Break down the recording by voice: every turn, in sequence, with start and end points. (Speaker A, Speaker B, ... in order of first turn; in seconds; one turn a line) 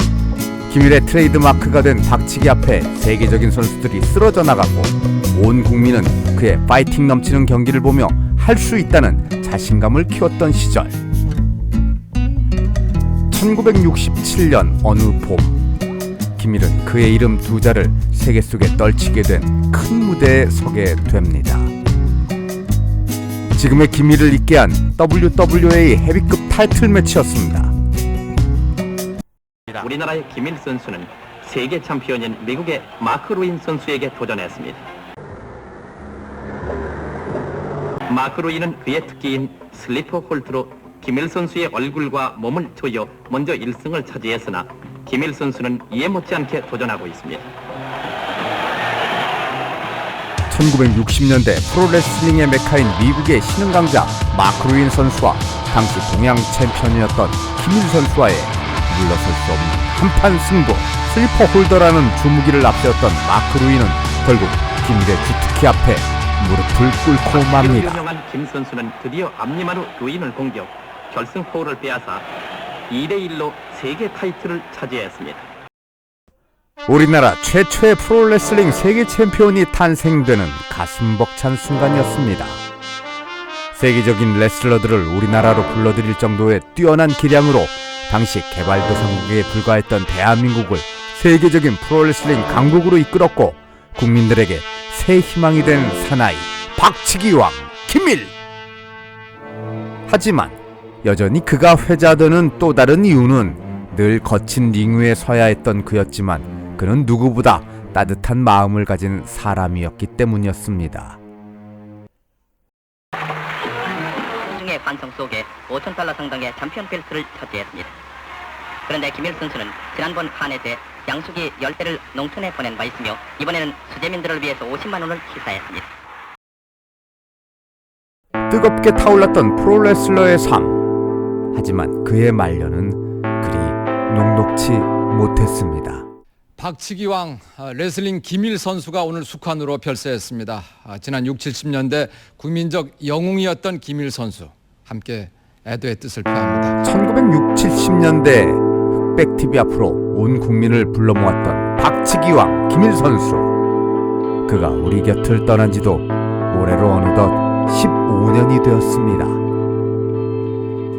Speaker A: 0.7-11.0
Speaker A: 13.3-15.6
Speaker A: 16.4-21.7
Speaker A: 23.6-27.7
Speaker B: 29.7-34.8
Speaker B: 38.1-47.5
Speaker A: 50.5-68.0
Speaker B: 67.2-72.3
Speaker B: 72.9-75.5
Speaker A: 76.9-82.6
Speaker A: 83.7-98.3
Speaker A: 100.1-111.2
Speaker C: 114.5-117.9
Speaker C: 118.9-125.8
Speaker A: 128.5-130.8
Speaker A: 131.5-136.1
Speaker D: 136.6-146.8
Speaker A: 146.8-153.5
Speaker A: 154.5-159.4